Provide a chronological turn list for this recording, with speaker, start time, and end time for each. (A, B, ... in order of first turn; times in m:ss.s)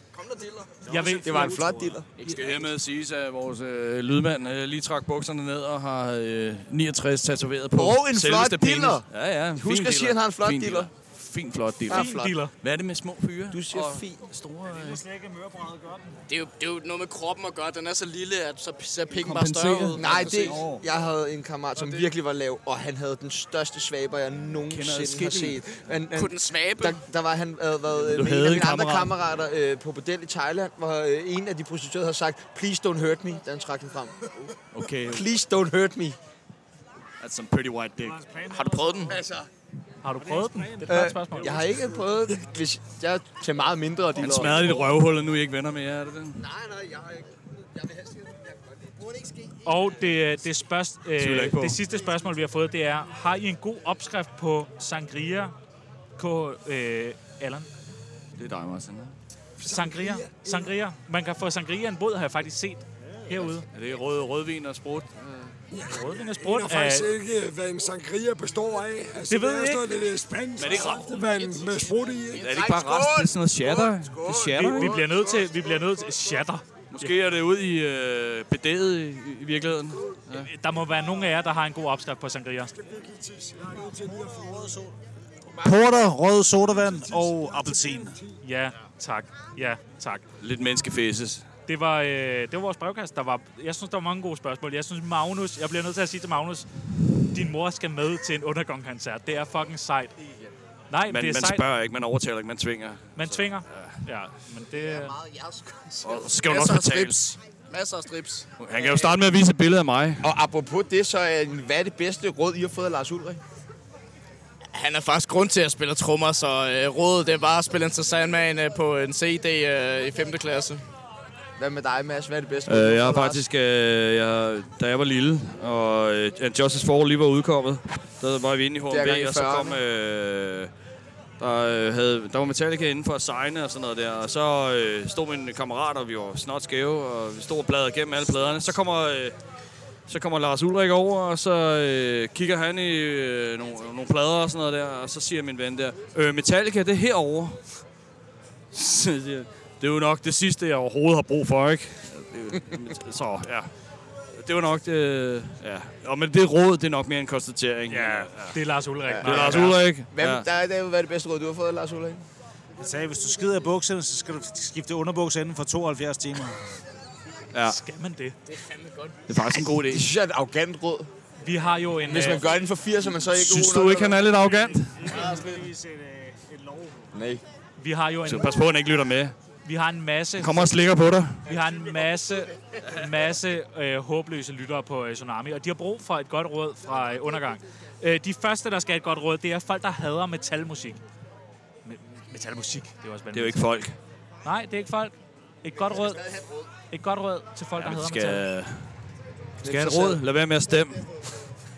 0:00.1-0:00.8 A
0:00.8-0:01.6 B
0:00.8-0:02.0 C
0:01.2-0:02.1 D
0:02.2-0:02.7 A
0:02.2-0:15.0 E
0:07.7-0:10.9 D
0:11.8-0:12.3 D
0:11.9-0:12.5 B
0:13.5-0:14.2 D
0:14.7-0:16.2 C
0:16.3-0:20.6 A
0:19.1-0:20.8 E
0:19.9-0:34.5 D
0:24.6-0:25.6 E
0:26.1-0:27.0 A
0:27.9-0:29.1 E
0:34.7-0:35.3 E
0:35.0-0:36.2 D
0:37.2-0:38.2 E
0:38.0-0:39.2 C
0:38.5-0:39.2 A
0:40.0-0:41.6 B
0:40.2-0:41.7 C
0:40.9-0:44.9 D
0:44.2-0:46.4 E
0:49.6-0:55.5 B
0:51.2-0:51.8 E
0:56.2-0:57.7 B
0:58.4-0:59.1 E
0:59.6-1:00.7 F
0:59.6-1:03.7 B
1:03.0-1:03.5 C
1:03.7-1:05.5 E
1:05.7-1:12.6 F
1:05.9-1:07.1 B
1:09.3-1:09.8 B
1:10.6-1:11.2 E
1:11.4-1:11.7 A
1:12.3-1:15.0 E
1:12.4-1:15.5 D
1:14.5-1:17.1 B
1:16.9-1:20.5 E
1:20.4-1:22.7 B
1:22.7-1:24.8 F
1:24.0-1:24.9 C
1:25.5-1:28.2 C
1:26.6-1:28.4 F
1:28.4-1:30.2 B
1:30.4-1:31.4 E
1:31.7-1:36.7 B
1:37.3-1:40.1 B
1:40.9-1:41.6 B
1:41.1-1:44.0 E
1:43.2-1:45.1 B
1:46.0-1:47.4 E
1:46.0-1:48.5 A
1:48.6-1:50.3 E
1:50.2-1:53.4 D
1:54.7-2:00.8 A
2:01.6-2:03.4 D
2:02.6-2:10.7 E
2:08.9-2:09.8 D
2:11.4-2:19.3 E
2:20.1-2:27.8 E
2:28.7-2:33.7 E
2:34.3-2:38.6 E
2:37.9-2:39.8 B
2:39.1-2:42.2 D
2:39.2-2:40.5 E
2:42.8-2:46.6 C
2:47.5-2:47.8 E
2:47.6-2:48.4 B
2:48.5-2:49.2 A
2:49.3-2:50.1 E
2:49.5-2:51.1 D
2:51.4-2:52.5 B
2:52.0-2:54.2 D
2:53.3-2:55.0 E
2:54.4-2:57.1 C
2:55.0-2:55.7 A
2:57.1-2:57.4 D
2:57.8-2:58.6 B
2:58.2-2:59.3 E
2:59.6-3:00.7 B
3:00.4-3:01.4 E
3:01.4-3:11.0 B
3:11.8-3:13.7 B
3:13.3-3:14.0 E
3:14.4-3:16.2 B
3:16.9-3:18.4 B
3:17.8-3:18.9 E
3:19.6-3:20.2 D
3:19.6-3:21.0 E